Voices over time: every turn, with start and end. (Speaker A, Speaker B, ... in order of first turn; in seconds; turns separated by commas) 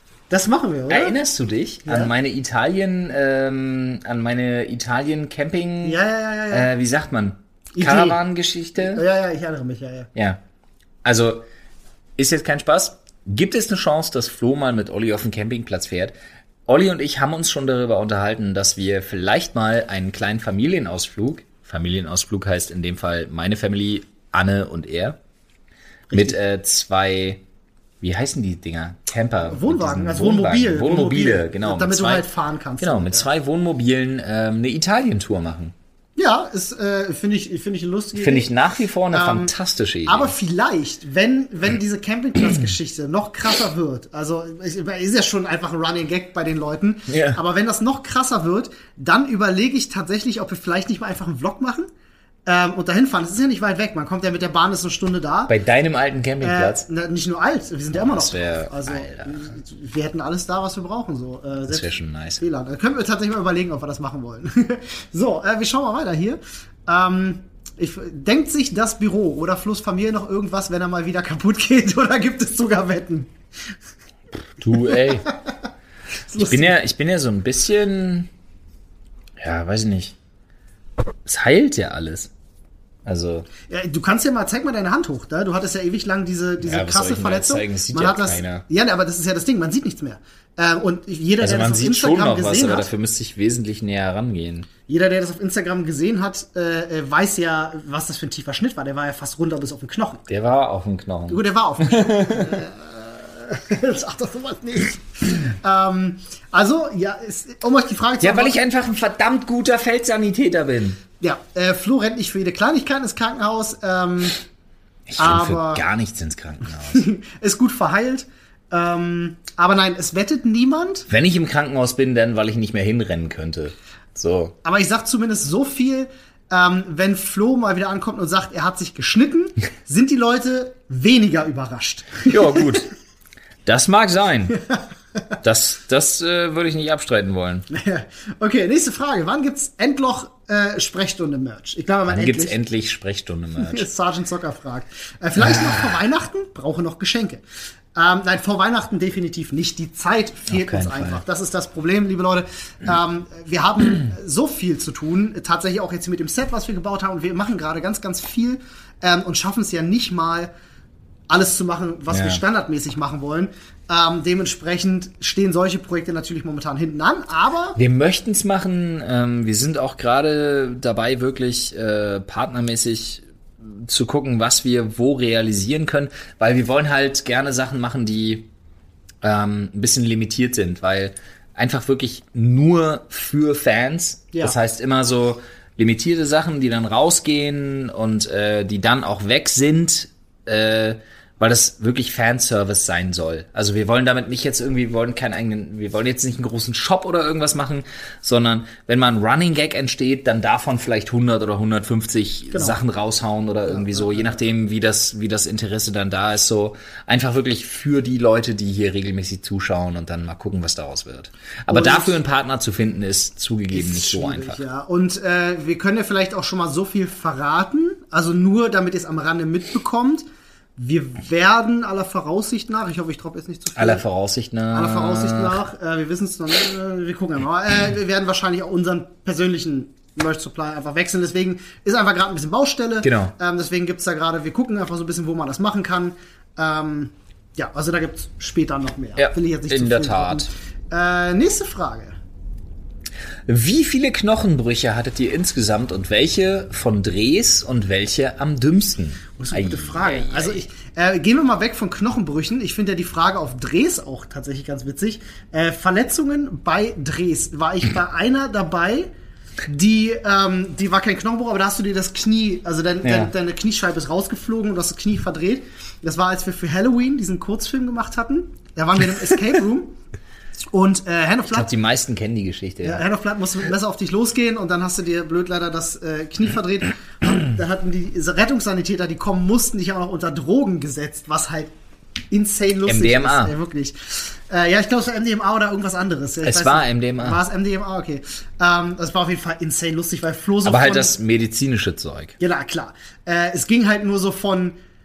Speaker A: 0.3-1.1, Speaker B: 0.9-6.0, Speaker A: 1.9-2.1, Speaker A: 5.8-6.7, Speaker B: 6.5-9.0, Speaker A: 7.7-8.2, Speaker A: 8.8-10.1, Speaker B: 10.1-10.4, Speaker B: 11.0-11.4, Speaker B: 12.2-16.1, Speaker B: 16.7-25.2, Speaker A: 26.1-26.4, Speaker B: 26.1-27.4, Speaker B: 28.0-32.3, Speaker A: 29.5-33.3, Speaker B: 32.8-35.7, Speaker A: 36.1-38.5, Speaker B: 38.1-40.3, Speaker A: 39.1-39.5, Speaker A: 40.0-51.9, Speaker B: 47.1-47.4, Speaker A: 52.5-55.5, Speaker B: 55.5-56.8, Speaker A: 56.4-73.7, Speaker B: 57.9-59.5, Speaker B: 61.7-62.4, Speaker B: 74.6-75.3, Speaker A: 74.8-75.5, Speaker A: 76.3-76.7, Speaker B: 76.4-78.3, Speaker B: 79.4-80.1, Speaker B: 81.3-82.3, Speaker B: 83.0-83.5, Speaker A: 83.7-92.9, Speaker B: 86.6-88.6, Speaker B: 91.4-94.7, Speaker A: 94.9-100.3, Speaker B: 100.3-102.6, Speaker A: 101.3-108.5, Speaker B: 108.2-111.0, Speaker A: 111.2-114.4, Speaker B: 115.1-117.0, Speaker A: 115.2-115.8, Speaker A: 116.9-121.1, Speaker B: 121.1-124.5, Speaker A: 124.6-132.7, Speaker B: 132.3-132.9, Speaker B: 133.6-134.6, Speaker B: 135.4-137.7, Speaker A: 137.7-142.6, Speaker B: 142.1-143.9, Speaker A: 143.6-147.4, Speaker B: 145.4-145.9, Speaker A: 147.9-160.5, Speaker B: 150.5-151.2, Speaker A: 161.3-167.8, Speaker B: 162.1-162.4, Speaker B: 167.8-178.5, Speaker B: 179.2-214.6, Speaker A: 202.5-202.8, Speaker A: 203.7-204.4, Speaker A: 211.7-212.2, Speaker A: 213.7-220.2, Speaker A: 220.8-224.0, Speaker B: 223.8-225.6, Speaker A: 224.7-242.2, Speaker B: 233.0-233.3, Speaker B: 239.2-240.5, Speaker B: 243.5-250.6, Speaker A: 249.4-259.1, Speaker A: 259.7-270.0, Speaker B: 263.0-263.3, Speaker A: 270.7-271.7, Speaker B: 271.5-273.0, Speaker A: 272.8-281.7, Speaker A: 282.3-291.1, Speaker B: 282.9-283.5, Speaker B: 286.4-287.4, Speaker B: 290.6-292.4, Speaker A: 292.4-294.8